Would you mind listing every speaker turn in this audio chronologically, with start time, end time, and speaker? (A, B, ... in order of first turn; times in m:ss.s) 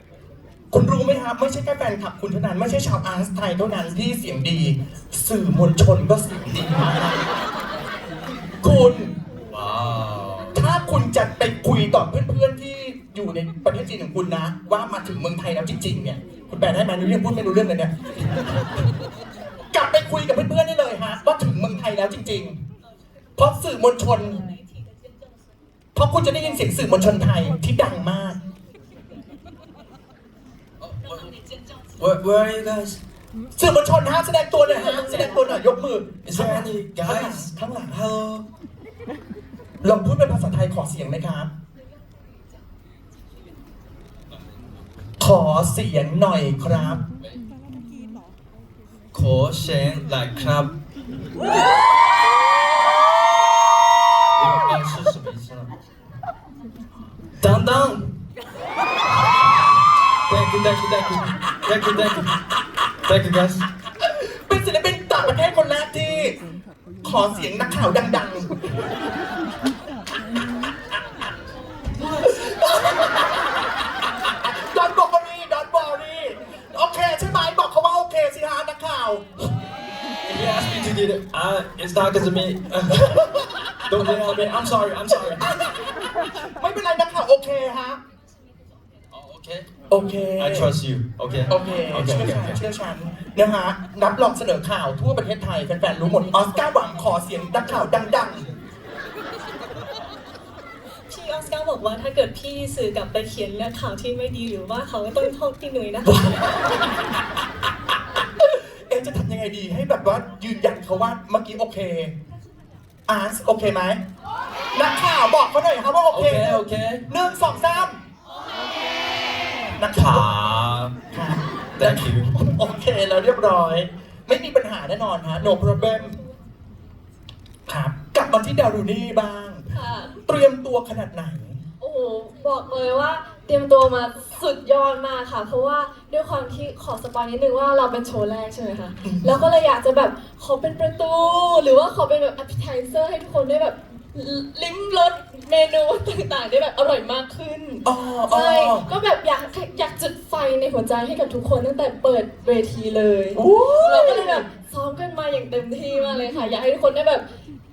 0:00.7-0:07.3 A
0:08.6-0:09.1 A
0:09.5-0:10.6 B
0:10.5-0:18.0 A
0:19.7-0:22.6 A
0:23.4-0:24.4 A
0:26.0-0:28.4 A
0:30.8-0:31.3 B
0:32.0-0:33.0 B
0:33.6-0:38.0 A
0:36.2-0:38.4 B
0:39.8-0:41.5 A
0:45.2-0:47.0 A
0:49.1-0:50.7 B
0:54.4-0:55.7 B
0:57.4-0:58.2 B
1:00.3-1:02.3 B
1:03.1-1:03.6 B
1:04.2-1:06.4 A
1:07.0-1:08.6 A
1:12.3-1:13.2 A
1:14.4-1:19.3 A
1:20.3-1:23.2 B
1:22.9-1:24.1 A
1:23.9-1:25.5 B
1:25.2-1:25.9 A
1:26.6-1:28.0 A
1:29.1-1:32.6 B
1:29.9-1:30.7 A
1:31.5-1:38.4 A
1:41.1-1:46.3 C
1:46.0-1:46.6 A
1:48.4-1:52.1 A
1:53.1-1:54.0 A
1:54.7-1:58.0 A
1:56.1-1:57.1 B
1:59.8-2:00.4 A
1:59.9-2:00.9 B
2:01.1-2:06.2 A
2:01.8-2:02.4 B
2:07.7-2:09.6 A
2:09.7-2:10.1 D
2:10.2-2:11.6 A
2:11.8-2:37.2 D
2:19.0-2:19.4 A
2:27.8-2:28.9 A
2:33.4-2:34.4 A